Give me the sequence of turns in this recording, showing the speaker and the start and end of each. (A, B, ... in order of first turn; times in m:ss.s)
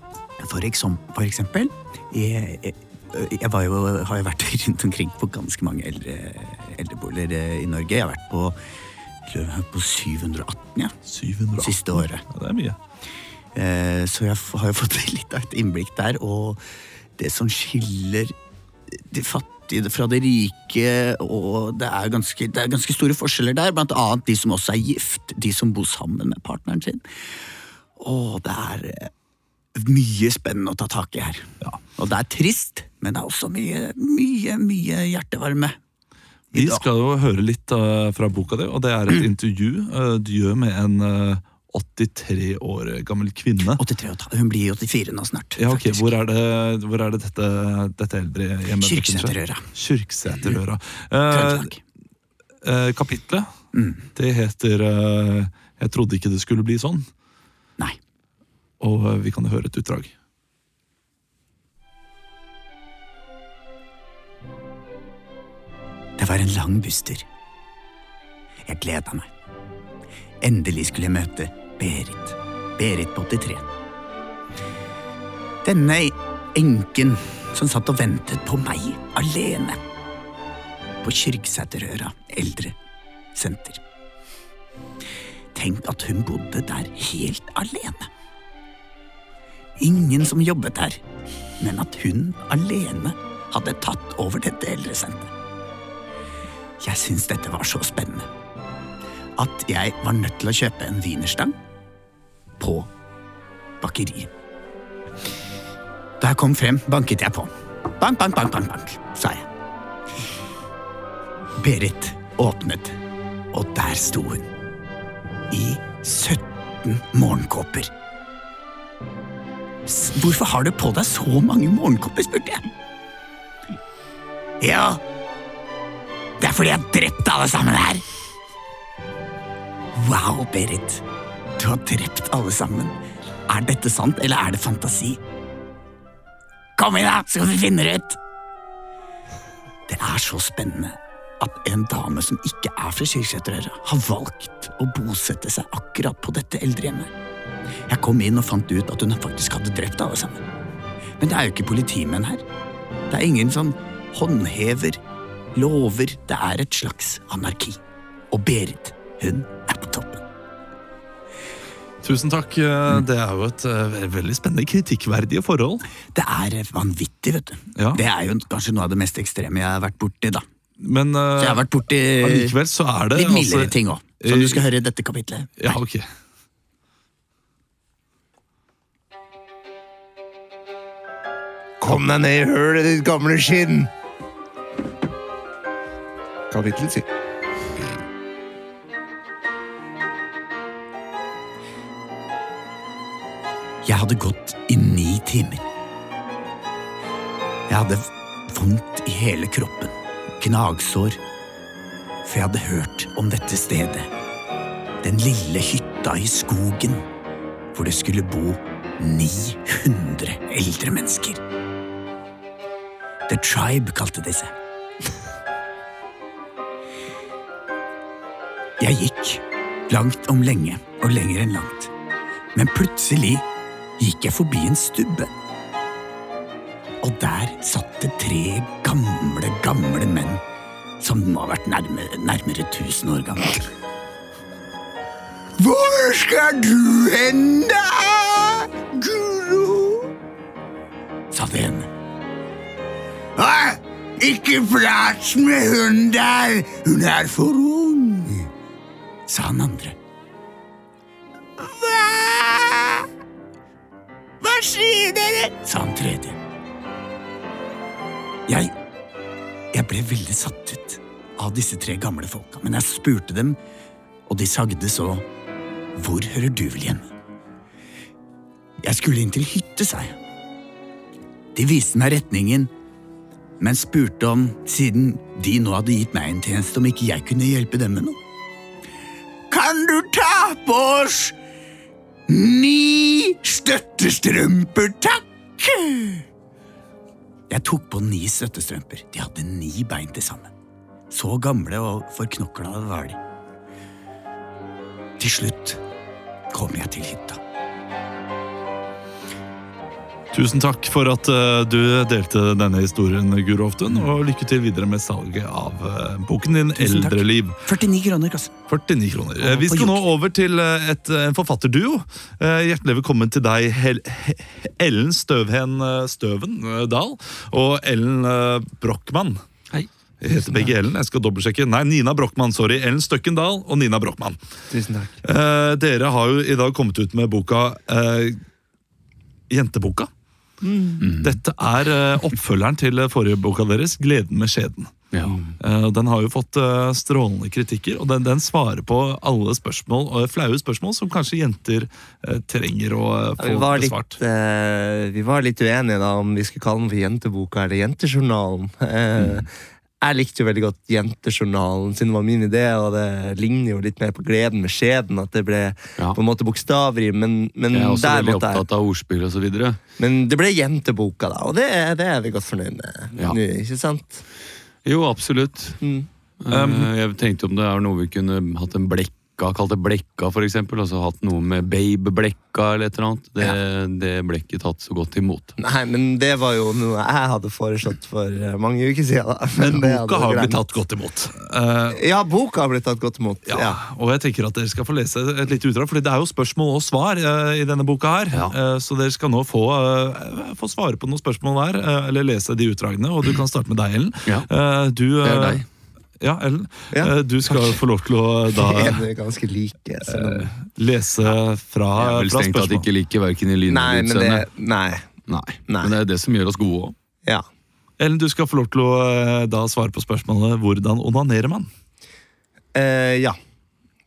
0:00.4-0:08.6 A
0:09.2-0:10.9 A
0:11.1-0:12.8 B
0:11.6-0:12.2 A
0:13.6-0:16.6 A
0:17.2-0:18.4 A
0:18.9-0:27.0 A
0:28.0-0:29.1 A
0:29.8-0:35.8 A
0:36.5-0:36.9 A
0:36.5-0:43.8 B
0:43.7-0:46.2 A
0:45.6-0:51.7 B
0:48.8-0:49.7 A
0:50.3-0:50.6 A
0:51.3-0:51.8 A
0:52.6-0:53.5 B
0:53.7-0:54.0 A
0:54.2-0:57.1 B
0:58.8-1:00.1 B
1:06.2-1:07.2 A
1:08.7-1:09.3 A
1:10.4-1:13.7 A
1:15.6-1:19.8 A
1:21.0-1:22.8 A
1:23.4-1:23.8 A
1:25.5-1:28.1 A
1:29.8-1:31.0 A
1:31.6-1:35.3 A
1:36.8-1:38.3 A
1:39.4-1:41.6 A
1:42.6-1:42.9 A
1:43.8-1:44.3 A
1:46.2-1:49.5 A
1:51.6-1:53.0 A
1:53.5-1:54.5 A
1:55.5-1:57.9 A
1:59.8-2:02.7 A
2:04.6-2:05.0 A
2:06.4-2:08.0 A
2:09.9-2:11.0 A
2:11.6-2:13.0 A
2:13.5-2:15.2 A
2:16.8-2:18.2 A
2:19.9-2:27.1 A
2:27.9-2:30.5 A
2:31.2-2:32.4 A
2:33.1-2:35.0 A
2:35.6-2:37.8 A
2:38.3-2:40.2 A
2:42.0-2:45.8 B
2:46.1-2:50.5 A
2:47.8-2:48.0 B
2:50.8-2:54.7 B
2:51.4-2:52.6 A
2:53.1-2:55.8 A
2:55.6-2:56.1 B
3:01.8-3:03.9 C
3:06.5-3:07.1 C
3:13.8-3:15.6 A
3:17.7-3:21.2 A
3:22.2-3:24.1 A
3:25.0-3:27.0 A
3:27.7-3:31.4 A
3:33.3-3:34.6 A
3:38.8-3:41.9 A
3:42.5-3:43.4 A
3:44.0-3:45.3 A
3:47.0-3:50.4 A
3:51.0-3:53.7 A
3:55.6-4:00.1 A
4:01.3-4:01.9 A
4:03.4-4:08.5 A
4:09.3-4:10.0 A
4:11.6-4:13.1 A
4:14.4-4:16.4 A
4:18.5-4:18.7 A
4:19.7-4:23.6 A
4:24.3-4:25.3 A
4:26.0-4:27.1 A
4:28.8-4:30.2 A
4:31.6-4:32.7 A
4:33.6-4:38.2 A
4:39.5-4:41.4 A
4:42.3-4:46.3 A
4:47.5-4:50.5 A
4:51.1-4:53.2 A
4:55.2-4:55.8 A
4:56.5-4:57.4 A
5:00.3-5:07.6 B
5:06.8-5:08.6 A
5:08.7-5:19.4 B
5:09.4-5:10.0 A
5:20.2-5:24.4 B
5:24.7-5:25.2 C
5:25.2-5:28.4 B
5:29.5-5:30.1 B
5:30.6-5:31.1 C
5:31.0-5:31.4 D
5:31.2-5:34.9 B
5:35.6-5:44.2 B
5:43.4-5:49.5 C
5:50.0-5:58.6 C
5:57.7-5:59.8 D
6:00.0-6:04.2 C
6:04.8-6:05.8 D
6:05.8-6:06.1 C
6:06.4-6:15.6 D
6:06.5-6:06.9 B
6:15.6-6:20.6 C
6:19.6-6:22.0 B
6:21.9-6:23.8 C
6:23.5-6:35.6 B
6:35.2-6:35.6 D
6:36.2-6:39.0 B
6:36.9-6:37.8 C
6:38.6-6:40.6 C
6:40.1-6:42.8 B
6:42.0-6:44.5 D
6:43.7-6:45.1 C
6:45.3-6:47.0 D
6:45.7-6:45.9 C
6:48.0-6:51.7 B
6:52.8-6:53.4 C